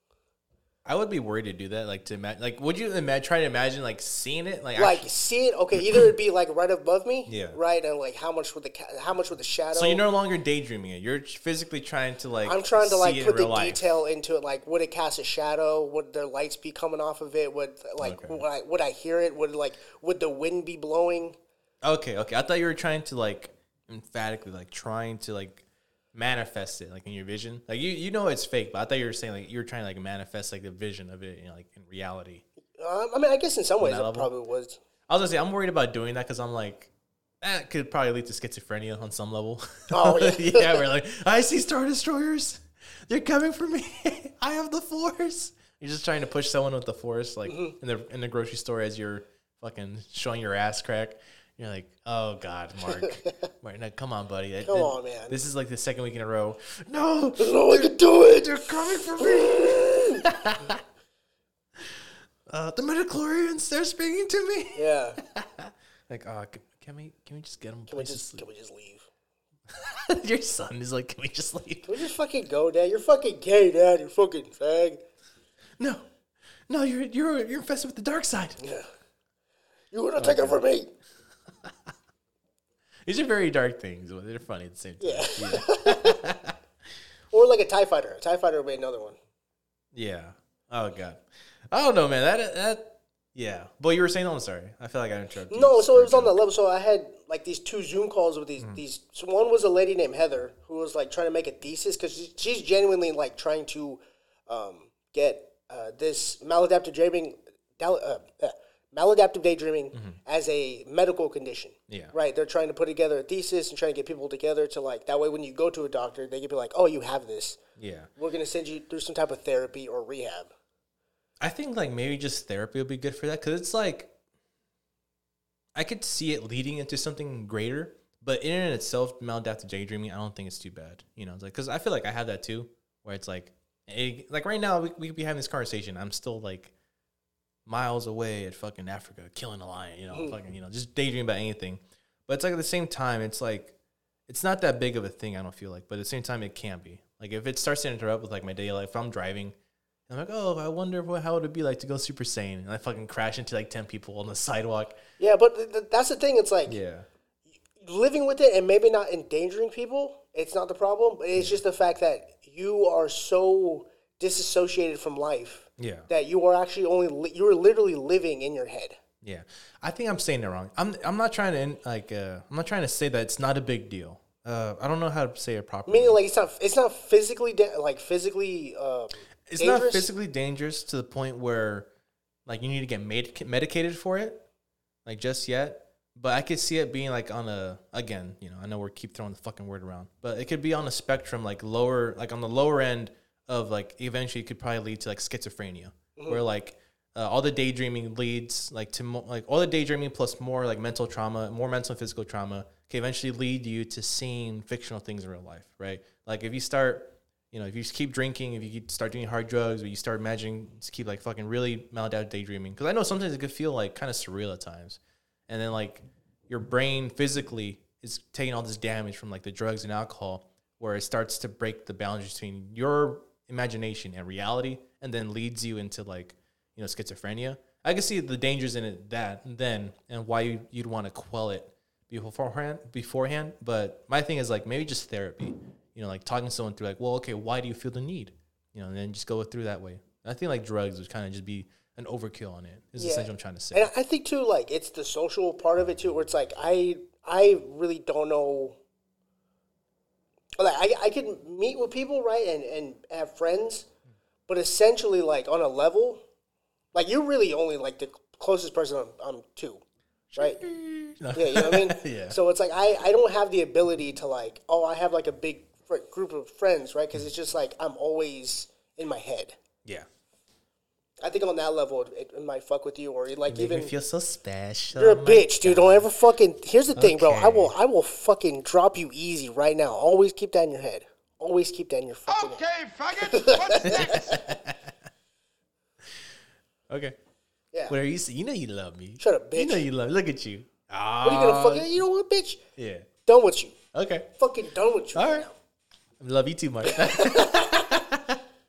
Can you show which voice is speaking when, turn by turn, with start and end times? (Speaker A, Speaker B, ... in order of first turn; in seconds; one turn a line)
Speaker A: 0.8-5.1
Speaker B: 4.8-10.0
Speaker A: 7.2-7.6
Speaker A: 9.7-13.9
Speaker B: 12.4-21.4
Speaker A: 18.0-18.4
Speaker A: 21.8-32.4
Speaker B: 32.8-34.8
Speaker A: 33.8-34.3
Speaker A: 35.1-60.8
Speaker B: 39.9-40.8
Speaker B: 47.5-47.7
Speaker B: 52.9-53.3
Speaker B: 54.6-55.4
Speaker B: 57.4-60.2
Speaker A: 61.8-68.4
Speaker B: 64.7-65.2
Speaker B: 67.9-69.1
Speaker A: 69.7-72.0
Speaker B: 71.9-75.0
Speaker A: 75.8-76.0
Speaker A: 76.7-78.6
Speaker B: 78.6-78.9
Speaker B: 79.9-80.9
Speaker A: 80.2-80.6
Speaker A: 83.0-86.5
Speaker B: 85.0-86.2
Speaker B: 87.3-89.2
Speaker A: 89.9-96.3
Speaker B: 95.5-117.6
Speaker A: 109.9-110.2
Speaker A: 111.9-112.1
Speaker A: 117.8-118.1
Speaker B: 118.2-120.5
Speaker A: 121.4-124.1
Speaker A: 125.7-136.7
Speaker A: 137.7-143.8
Speaker B: 140.1-140.4
Speaker A: 144.3-149.5
Speaker A: 150.1-155.0
Speaker B: 155.2-156.8
Speaker A: 156.7-157.1
Speaker B: 157.8-169.0
Speaker A: 165.8-166.1
Speaker A: 169.2-176.2
Speaker B: 175.9-180.1
Speaker A: 179.5-181.9
Speaker A: 182.4-184.4
Speaker A: 185.0-243.9
Speaker B: 196.2-196.4
Speaker B: 243.0-248.8
Speaker B: 250.6-253.9
Speaker B: 254.5-256.2
Speaker B: 256.9-259.8
Speaker A: 260.3-262.4
Speaker B: 261.3-269.6
Speaker B: 271.2-273.9
Speaker A: 273.5-276.1
Speaker B: 274.9-282.6
Speaker A: 276.9-277.7
Speaker C: 282.3-284.3
Speaker B: 283.2-284.5
Speaker A: 283.8-284.9
Speaker A: 286.9-287.2
Speaker A: 287.9-292.0
Speaker B: 289.2-289.8
Speaker B: 291.2-292.6
Speaker A: 292.8-293.1
Speaker B: 293.2-293.8
Speaker A: 293.9-294.3
Speaker B: 294.4-295.6
Speaker A: 295.1-295.5
Speaker A: 296.2-298.4
Speaker B: 296.9-297.9